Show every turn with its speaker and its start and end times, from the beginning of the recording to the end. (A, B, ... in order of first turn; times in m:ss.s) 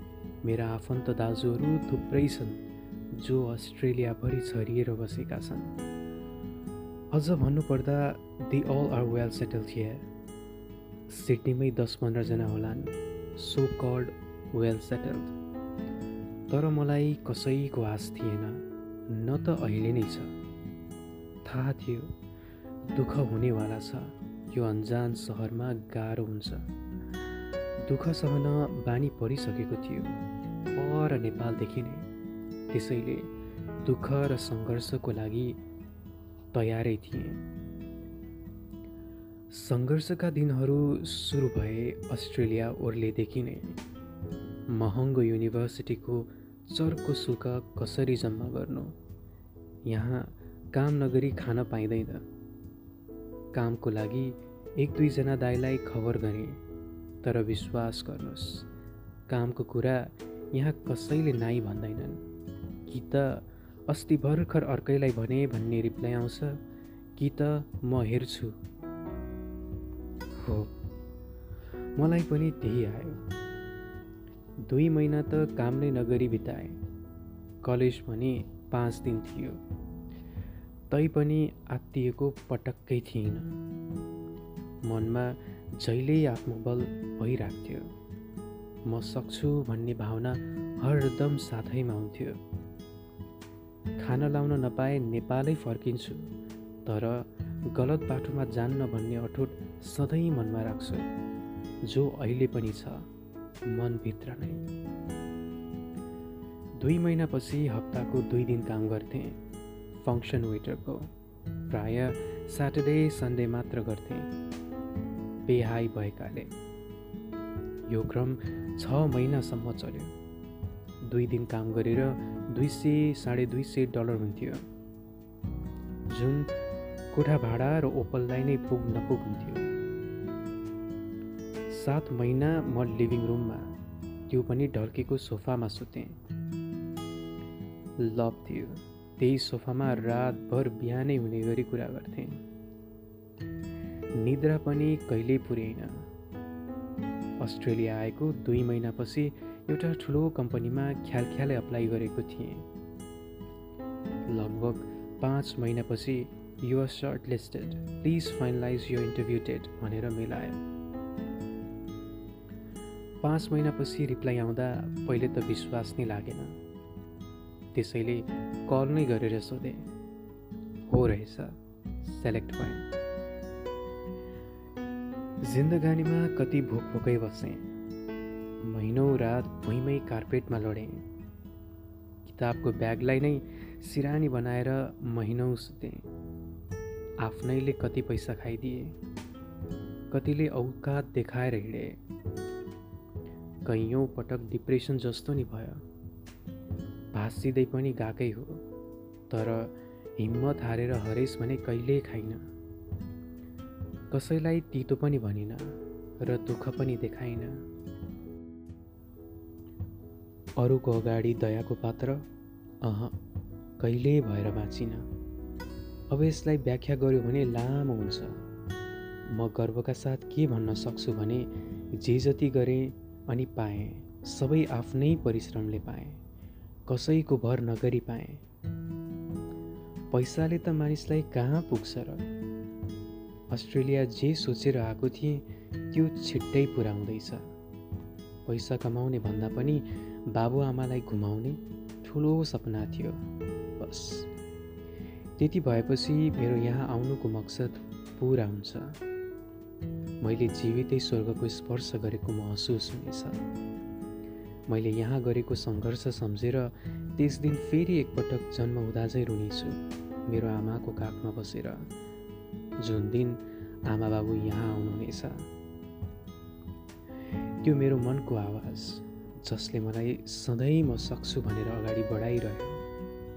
0:00.4-0:02.6 A
0:03.1-0:05.7 A
0:07.1-0:10.0 A
0:11.1-0:15.3 A
0:16.5-0:20.3 A
0:21.4-0:22.1 A
0:22.8-0:26.7 A
0:27.8-0:30.2 A
0:30.7-0:32.1 A
0:32.7-0:33.3 A
0:33.8-0:35.6 A
0:36.5-0:37.4 A
0:39.5-0:43.8 A
0:44.7-0:48.9 A
0:49.8-0:52.2 A
0:53.5-0:56.6 A
0:57.2-0:58.7 A
0:59.3-1:02.2 A
1:02.9-1:06.6 A
1:07.2-1:08.6 A
1:10.4-1:10.7 A
1:12.0-1:13.2 A
1:14.6-1:16.8 A
1:17.6-1:19.6 A
1:20.9-1:23.5 A
1:24.8-1:27.9 A
1:28.9-1:32.4 A
1:34.0-1:36.3 A
1:36.8-1:41.0 A
1:41.8-1:43.0 A
1:43.7-1:44.6 A
1:46.8-1:49.4 A
1:50.0-1:51.1 A
1:51.7-1:54.3 A
1:55.4-1:56.5 A
1:57.9-2:00.1 A
2:01.0-2:04.6 A
2:06.1-2:06.5 A
2:07.1-2:09.7 A
2:11.7-2:13.7 A
2:14.3-2:16.2 A
2:18.0-2:22.4 A
2:24.2-2:26.1 A
2:27.4-2:32.6 A
2:34.3-2:40.6 A
2:43.2-2:46.6 A
2:47.7-2:49.8 A
2:50.9-2:52.8 A
2:55.4-2:57.7 A
2:58.6-3:01.0 A
3:02.2-3:06.0 A
3:07.2-3:08.9 A
3:10.1-3:12.0 A
3:13.6-3:15.8 A
3:17.1-3:18.6 A
3:19.3-3:22.5 A
3:24.1-3:27.6 A
3:30.6-3:32.2 A
3:32.8-3:33.2 A
3:33.8-3:35.1 A
3:36.1-3:38.4 A
3:39.3-3:46.2 A
3:46.9-3:48.4 A
3:50.1-3:52.2 A
3:53.5-3:57.5 A
3:58.4-4:03.2 A
4:03.8-4:04.3 A
4:05.4-4:09.0 A
4:10.2-4:13.4 A
4:14.7-4:21.9 A
4:22.8-4:25.4 A
4:27.6-4:32.8 A